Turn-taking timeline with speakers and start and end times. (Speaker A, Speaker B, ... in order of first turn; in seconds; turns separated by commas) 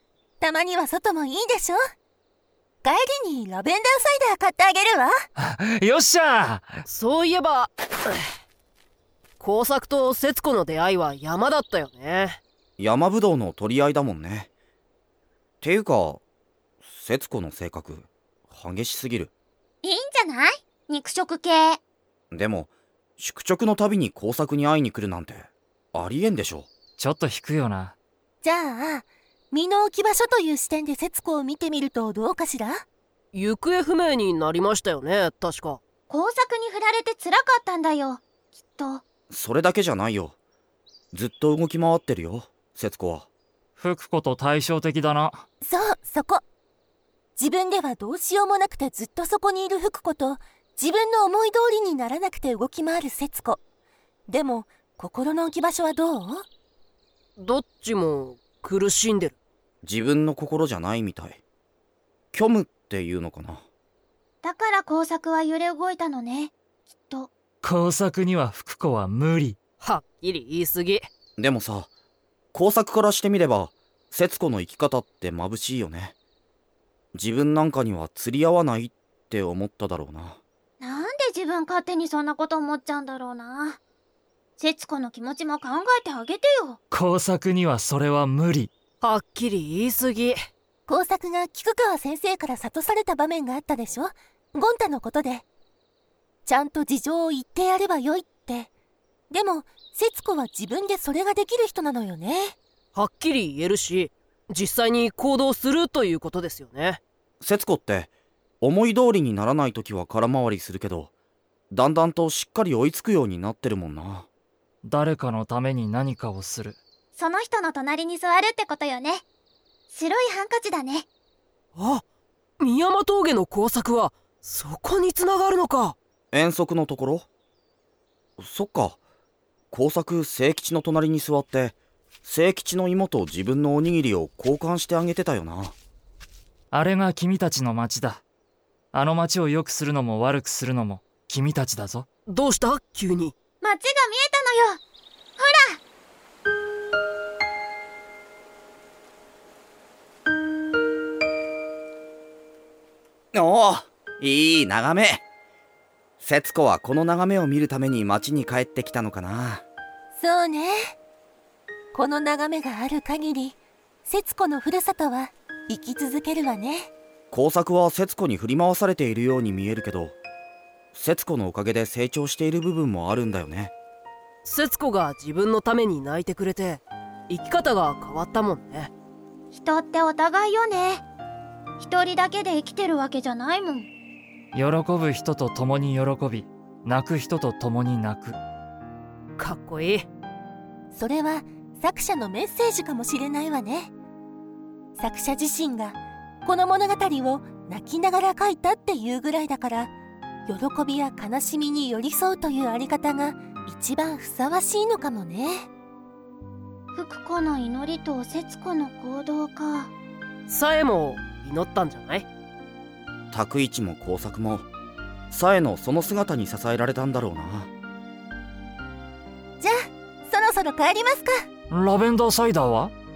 Speaker A: 0.4-1.8, Speaker A: 2.8-5.1, Speaker B: 5.4-6.8, Speaker C: 6.9-8.2, Speaker C: 9.4-12.4, Speaker D: 12.8-14.5, Speaker D: 15.6-16.2, Speaker D: 16.8-19.3, Speaker E: 19.8-21.8, Speaker D: 22.3-26.7, Speaker B: 27.0-28.0, Speaker A: 28.4-32.8, Speaker C: 33.3-35.8, Speaker E: 36.1-38.2, Speaker E: 38.7-39.0, Speaker D: 39.3-40.4, Speaker D: 41.1-43.3, Speaker B: 43.8-45.5, Speaker A: 45.6-46.4, Speaker A: 47.4-53.6, Speaker A: 54.3-56.5, Speaker C: 57.4-59.4, Speaker D: 59.8-61.4, Speaker D: 62.3-63.6, Speaker E: 64.4-67.3, Speaker B: 67.6-69.6, Speaker C: 69.8-71.0, Speaker D: 71.4-71.9, Speaker D: 72.5-76.2, Speaker D: 77.2-80.4, Speaker E: 80.8-83.8, Speaker E: 84.6-86.8, Speaker B: 86.9-88.7, Speaker C: 89.0-90.4, Speaker A: 90.9-95.4, Speaker A: 96.5-98.7, Speaker A: 99.3-102.5, Speaker C: 103.0-107.0, Speaker D: 107.4-111.1, Speaker D: 111.7-114.3, Speaker B: 114.8-116.8, Speaker E: 117.2-119.2, Speaker E: 119.9-121.1, Speaker C: 121.8-122.0, Speaker C: 122.6-126.0, Speaker D: 126.3-127.3, Speaker D: 128.4-129.0, Speaker D: 129.7-135.8, Speaker B: 136.7-138.2, Speaker B: 138.9-142.1, Speaker C: 142.3-143.3, Speaker E: 143.6-144.8, Speaker E: 145.4-145.8, Speaker D: 153.3-155.2, Speaker D: 156.2-159.7, Speaker A: 160.2-160.9, Speaker A: 161.9-166.9, Speaker D: 167.3-170.2, Speaker D: 170.9-173.7, Speaker C: 174.4-178.9, Speaker E: 179.5-181.0, Speaker E: 181.8-183.9, Speaker B: 184.5-188.4, Speaker C: 189.4-190.1, Speaker A: 190.9-193.9, Speaker A: 195.0-199.9, Speaker A: 200.5-205.7, Speaker E: 206.9-209.9, Speaker C: 210.5-212.3, Speaker D: 213.3-214.7, Speaker D: 215.3-217.7, Speaker A: 219.6-221.4, Speaker B: 221.7-222.9